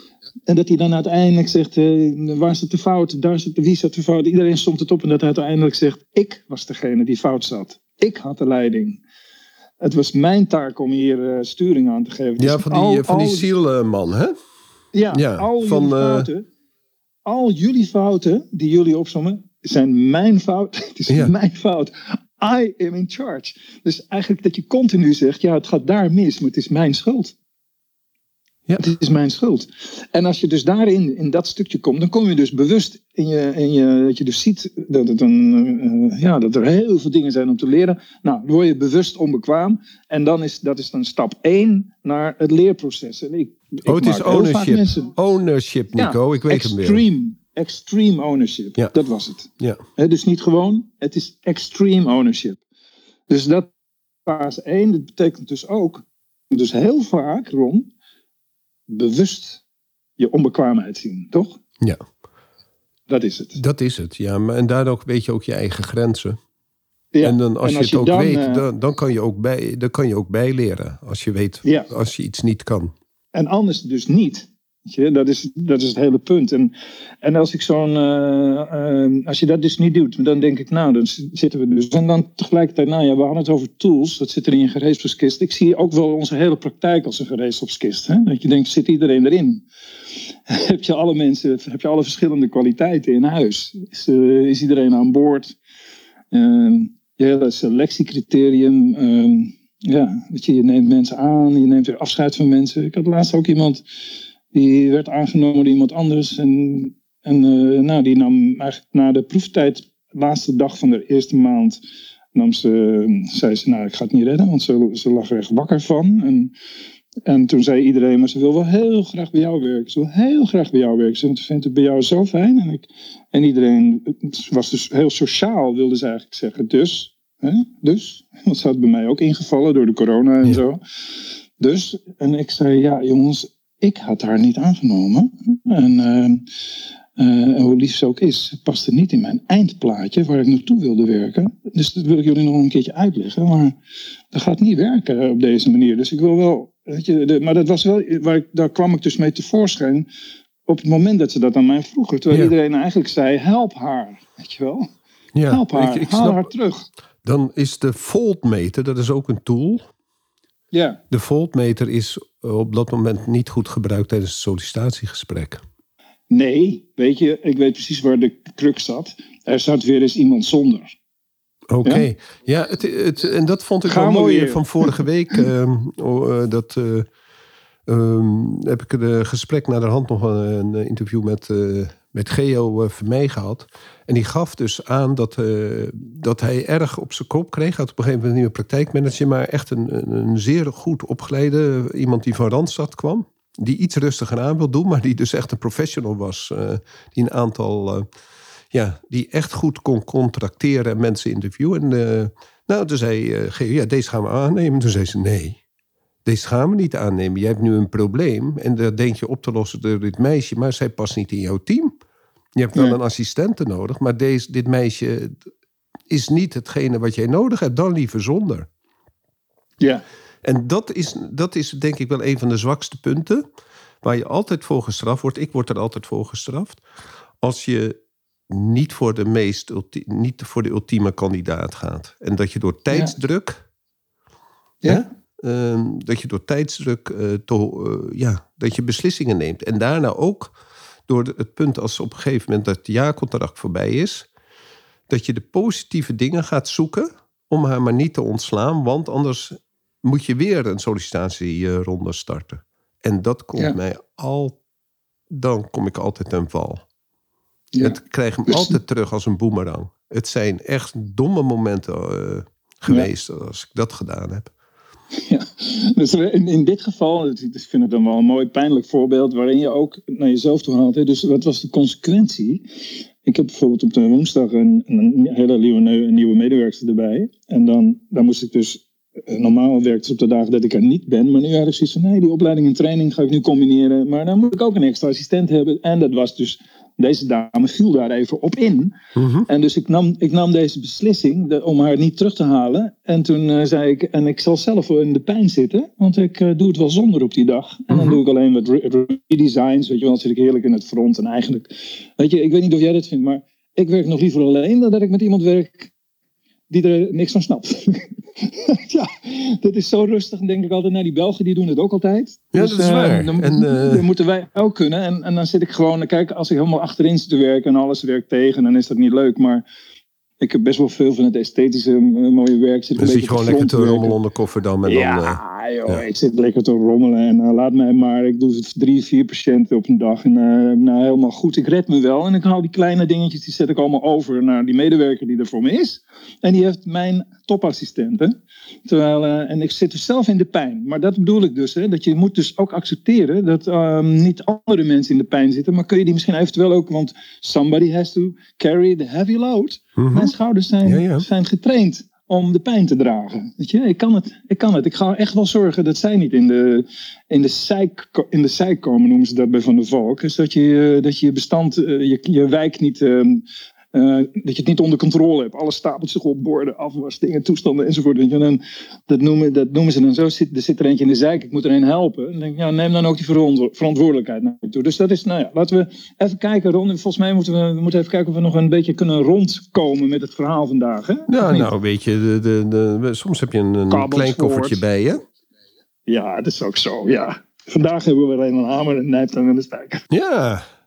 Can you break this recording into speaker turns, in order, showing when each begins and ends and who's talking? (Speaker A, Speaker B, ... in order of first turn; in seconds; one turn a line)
Speaker A: 0.5-9.0
Speaker A: 9.8-13.5
Speaker B: 12.4-14.3
Speaker A: 14.9-16.4
Speaker B: 15.1-16.3
Speaker A: 17.2-27.3
Speaker A: 28.8-45.1
Speaker B: 43.9-47.0
Speaker A: 45.9-52.6
Speaker A: 53.3-53.7
Speaker A: 54.2-57.9
Speaker A: 58.9-59.6
Speaker A: 60.2-61.6
Speaker A: 63.1-63.6
Speaker B: 63.5-66.4
Speaker A: 67.1-68.6
Speaker B: 67.2-72.9
Speaker A: 73.3-89.6
Speaker A: 90.5-95.5
Speaker A: 96.3-103.8
Speaker A: 104.5-111.8
Speaker A: 112.3-116.5
Speaker A: 117.2-130.8
Speaker A: 131.6-136.4
Speaker A: 137.2-143.8
Speaker A: 144.3-150.1
Speaker A: 150.7-154.9
Speaker B: 155.3-156.5
Speaker A: 155.5-156.8
Speaker B: 157.2-159.8
Speaker A: 160.7-161.0
Speaker B: 161.1-165.6
Speaker A: 166.3-170.9
Speaker B: 171.7-177.1
Speaker A: 173.8-174.9
Speaker B: 177.9-198.0
Speaker B: 198.7-205.6
Speaker B: 206.2-211.9
Speaker B: 212.6-215.4
Speaker B: 216.1-218.7
Speaker B: 220.4-223.4
Speaker B: 224.0-226.8
Speaker B: 227.4-228.0
Speaker B: 228.5-233.6
Speaker B: 234.9-240.5
Speaker B: 241.1-244.3
Speaker B: 245.1-254.6
Speaker B: 255.3-256.8
Speaker A: 257.7-258.8
Speaker B: 257.8-264.5
Speaker A: 265.2-272.6
Speaker A: 273.2-288.9
Speaker B: 289.1-289.5
Speaker A: 289.5-305.9
Speaker B: 297.9-298.2
Speaker A: 306.7-319.6
Speaker B: 312.5-314.1
Speaker A: 320.4-324.1
Speaker B: 323.0-326.0
Speaker A: 324.8-381.7
Speaker B: 350.0-350.3
Speaker B: 350.8-351.2
Speaker B: 381.3-385.2
Speaker A: 383.9-384.8
Speaker A: 386.1-390.0
Speaker B: 390.1-390.6